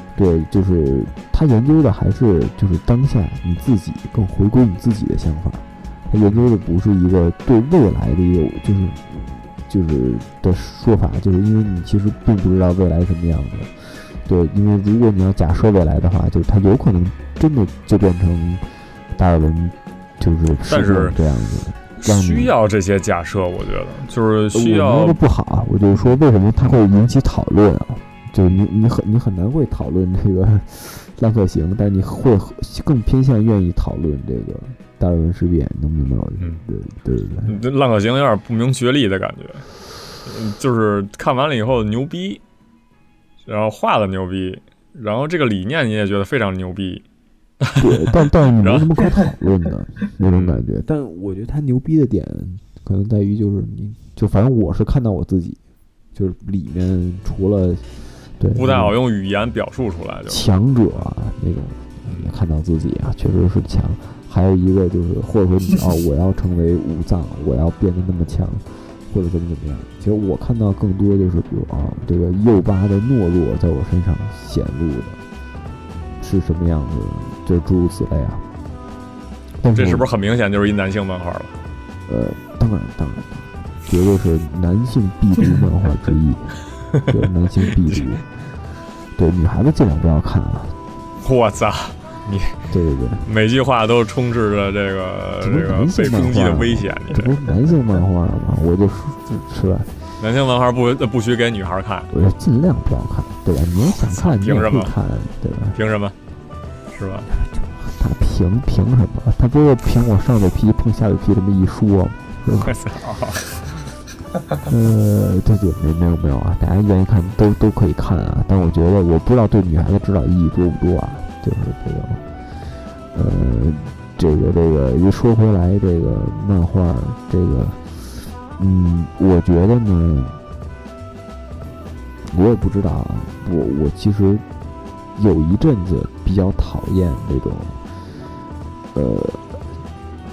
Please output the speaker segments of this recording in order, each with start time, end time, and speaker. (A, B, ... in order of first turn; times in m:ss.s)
0:00.2-0:22.5 A
0:20.7-0:21.2 B
0:22.0-0:25.2 B
0:24.5-0:37.6 A
0:37.5-0:39.7 B
0:40.2-0:42.4 B
0:43.5-0:47.0 B
0:47.6-0:49.0 B
0:47.8-0:55.6 A
0:50.2-0:50.6 B
0:56.2-0:57.9 A
0:58.4-0:59.0 A
0:58.5-1:00.5 B
1:00.3-1:15.2 A
1:02.1-1:02.3 B
1:16.2-1:18.4 A
1:19.6-1:20.1 A
1:19.7-1:21.6 B
1:22.1-1:28.3 A
1:29.2-1:30.8 A
1:31.2-1:32.6 B
1:32.7-1:33.3 A
1:33.2-1:37.4 B
1:35.4-1:39.9 A
1:40.2-1:42.1 B
1:42.1-1:45.8 A
1:43.9-1:44.9 B
1:45.7-1:46.2 B
1:46.9-1:47.3 B
1:47.3-1:52.8 A
1:52.6-1:53.7 B
1:54.6-2:02.2 A
2:03.1-2:10.4 A
2:12.3-2:14.4 A
2:15.2-2:17.8 A
2:18.9-2:19.6 A